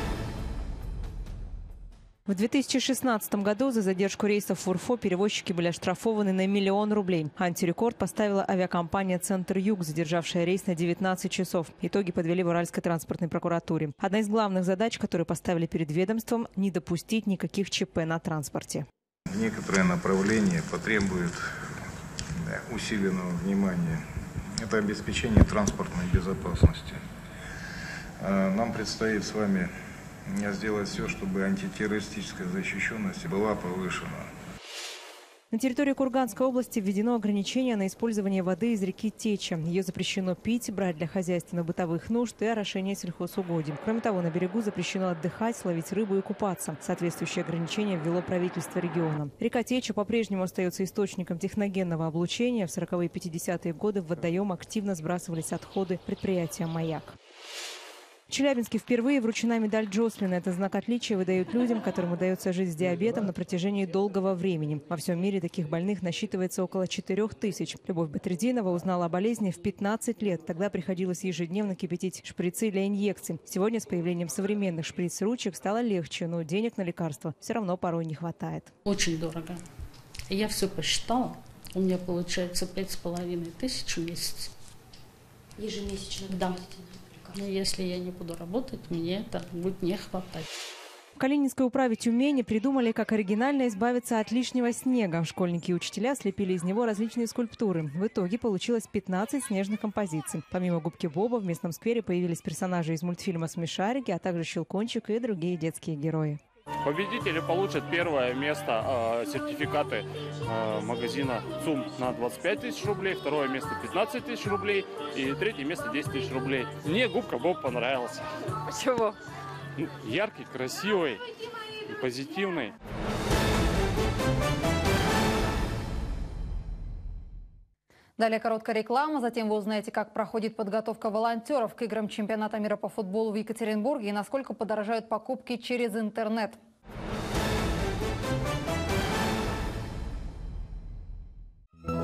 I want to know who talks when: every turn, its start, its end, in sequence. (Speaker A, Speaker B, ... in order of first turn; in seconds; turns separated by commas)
Speaker A: 2.3-18.9, Speaker B: 19.3-21.5, Speaker B: 22.4-24.1, Speaker B: 24.6-27.0, Speaker B: 28.2-29.7, Speaker B: 30.3-34.3, Speaker A: 35.5-57.1, Speaker A: 58.3-78.7, Speaker C: 78.8-79.6, Speaker C: 80.3-84.5, Speaker C: 86.3-86.6, Speaker C: 87.3-90.5, Speaker A: 91.2-106.4, Speaker D: 106.8-118.2, Speaker D: 119.8-121.2, Speaker D: 121.9-122.7, Speaker E: 128.2-136.6